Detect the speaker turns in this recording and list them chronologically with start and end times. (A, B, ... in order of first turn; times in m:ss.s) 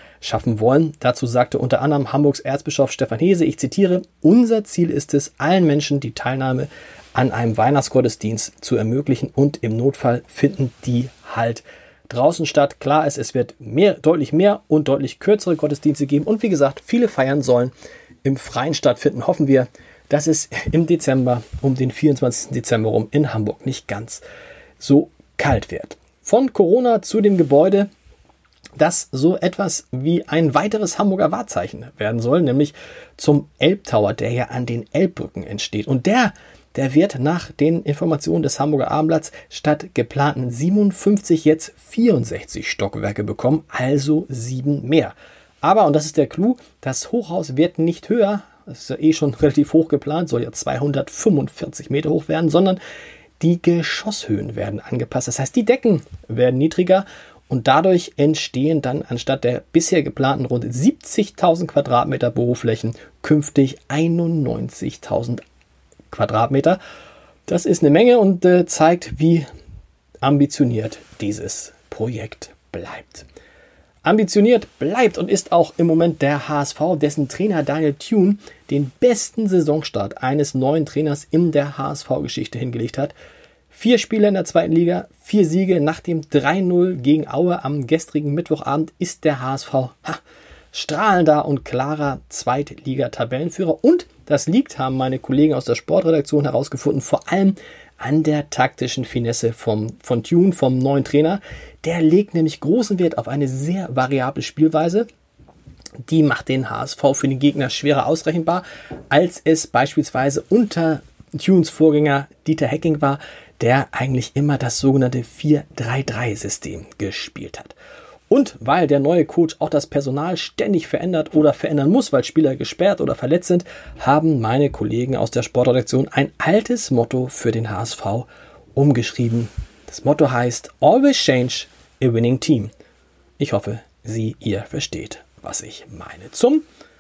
0:00.2-0:17.7 A
0:18.2-0:24.2 A
0:24.8-0:27.9 A
0:28.8-0:52.8 A
0:53.4-1:05.4 A
1:06.1-1:06.8 A
1:07.5-1:09.5 A
1:10.2-1:13.3 A
1:14.0-1:23.1 A
1:23.7-1:30.2 A
1:30.7-1:45.1 A
1:46.0-1:57.8 A
1:58.3-2:12.7 A
2:13.4-2:16.6 A